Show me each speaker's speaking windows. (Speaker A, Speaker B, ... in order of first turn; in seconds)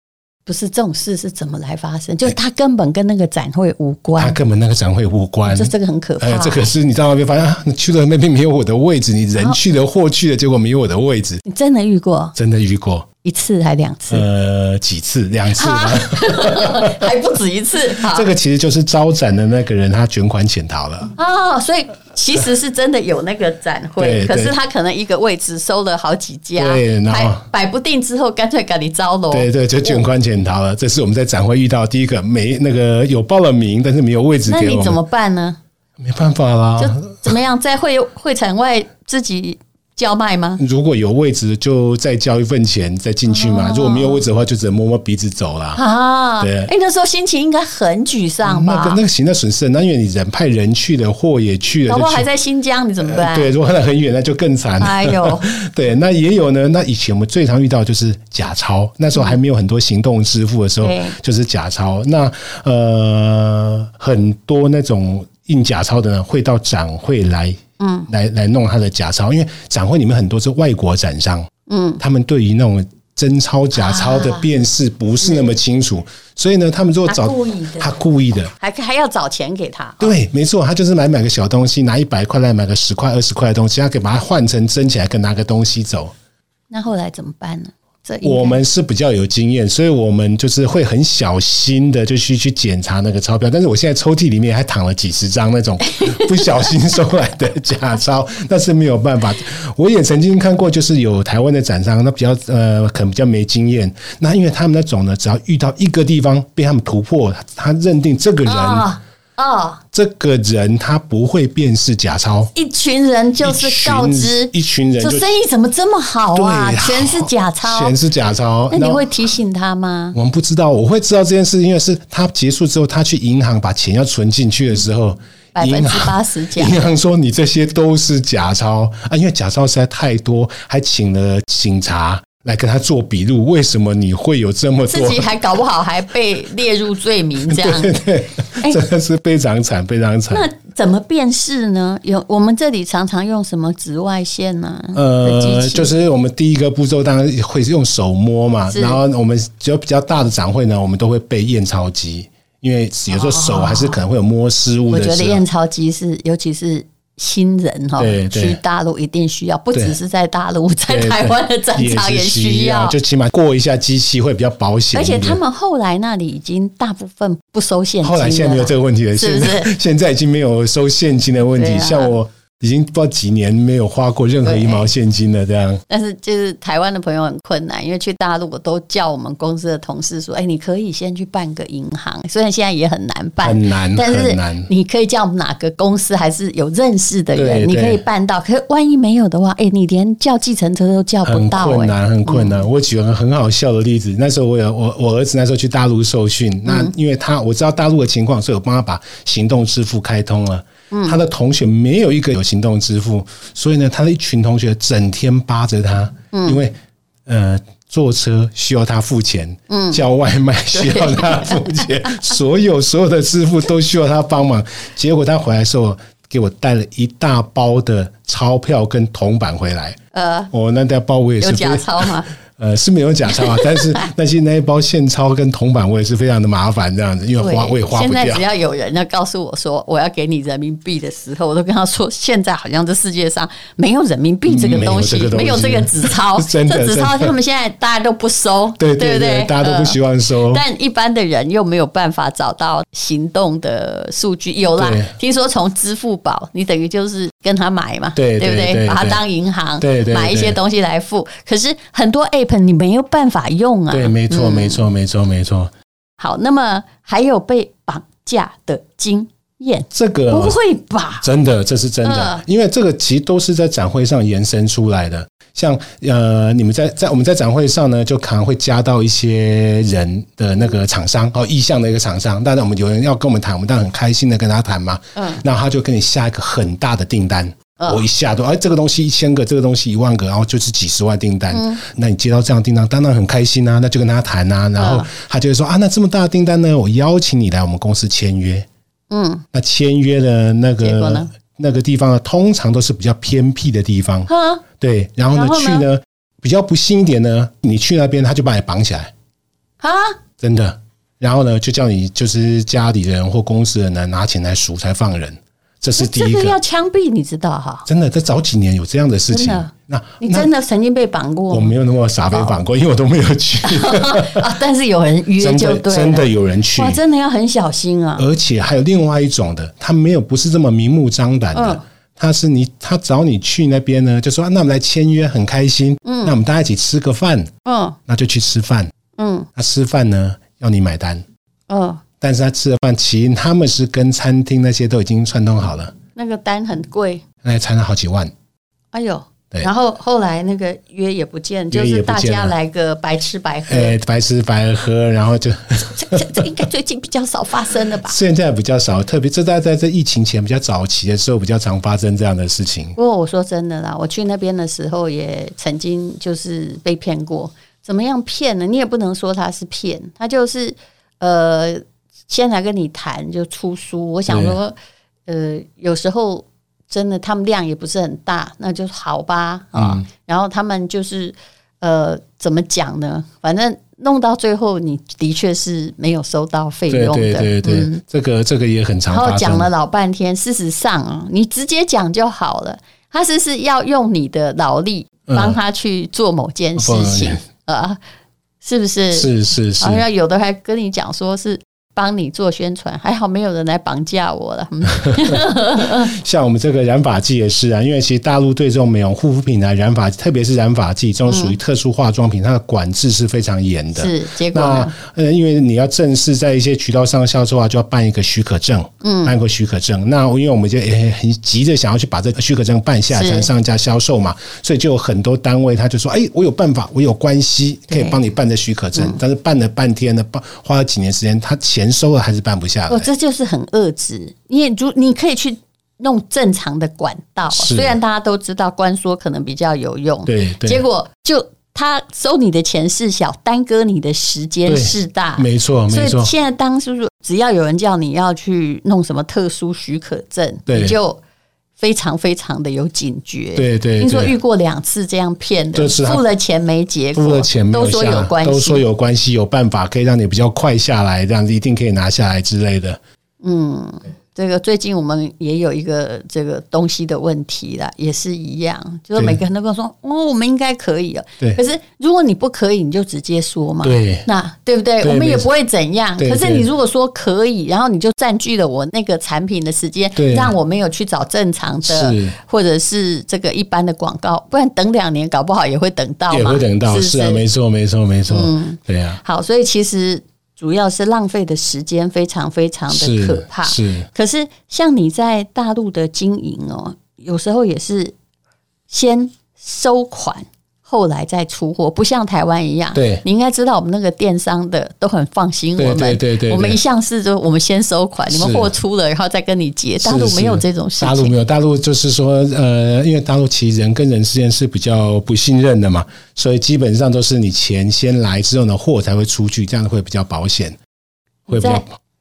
Speaker A: 0.5-4.4, 5.5-6.7, 11.4-12.4, 13.2-14.2, 15.5-18.3, 21.2-30.1, 34.5-35.6, 36.8-40.6, 43.3-44.2, 45.8-49.0, 51.9-53.5, 54.8-55.5, 60.8-61.2, 67.8-68.1, 71.7-72.0, 73.7-74.5, 75.2-75.5, 77.1-77.9, 78.6-80.2, 86.7-88.6, 95.9-96.7, 108.4-109.8, 112.5-118.0, 118.7-120.2, 125.5-126.9, 134.9-138.0, 140.3-145.9, 148.7-149.0, 153.1-154.0, 154.9-163.0, 164.9-169.7, 171.6-172.1, 174.4-174.9, 175.9-192.6, 196.7-196.9, 200.9-201.2, 206.3-206.6, 209.7-210.0, 210.7-212.3, 220.1-220.5, 221.4-222.3, 223.3-224.1, 227.4-254.8, 256.2-261.3, 262.0-262.4, 275.1-275.4, 277.8-278.1, 281.5-281.8, 284.8-285.1, 289.1-289.4, 290.8-291.3, 294.3-294.6, 295.3-295.9, 299.8-300.2, 306.0-307.9, 309.3-311.8, 312.3-312.6, 313.6-318.3, 321.5-321.8, 326.0-326.4, 327.6-328.0, 329.2-329.5, 331.7-332.0, 336.2-337.2, 338.9-344.0, 345.9-348.2, 353.0-364.8, 365.3-378.0, 379.1-388.0, 388.6-396.1, 401.3-401.6, 404.0-404.9, 409.0-409.3, 413.1-413.5, 417.9-418.2, 422.9-441.2, 441.8-448.8, 453.4-477.4, 478.3-488.1, 488.9-501.4, 511.5-511.8
Speaker B: 4.2-11.4, 12.4-13.1, 14.1-17.1, 18.0-21.1, 24.0-24.6, 26.6-27.4, 29.3-35.0, 36.0-37.3, 40.6-45.8, 46.4-46.7, 48.4-52.3, 53.0-78.5, 80.0-86.1, 88.2-108.9, 109.9-112.5, 113.4-115.3, 116.3-119.3, 120.1-135.3, 137.5-140.5, 144.9-155.4, 158.0-158.6, 160.9-165.4, 168.0-175.8, 183.4-184.7, 187.4-188.0, 191.2-206.8, 207.3-220.0, 220.5-228.4, 234.5-237.3, 238.8-240.6, 244.8-245.1, 248.2-249.2, 249.8-250.6, 253.9-255.7, 259.9-260.6, 261.2-288.7, 289.5-299.1, 300.4-306.6, 307.9-310.5, 311.5-314.5, 315.4-317.0, 318.2-327.5, 328.1-328.9, 329.6-331.2, 332.2-335.9, 337.4-338.3, 341.7-342.6, 343.7-346.5, 348.1-353.0, 364.3-364.6, 369.8-370.1, 376.9-379.7, 385.3-385.6, 386.8-387.4, 389.1-390.0, 395.0-423.1, 427.5-428.0, 430.3-430.8, 434.7-436.3, 440.7-441.0, 443.6-444.4, 445.7-446.2, 447.1-453.0, 463.8-464.3, 465.0-465.5, 466.2-466.7, 470.2-470.5, 471.9-472.4, 476.3-479.2, 482.9-484.1, 492.9-493.2, 495.8-496.8, 498.3-498.7, 500.0-510.8, 511.5-511.9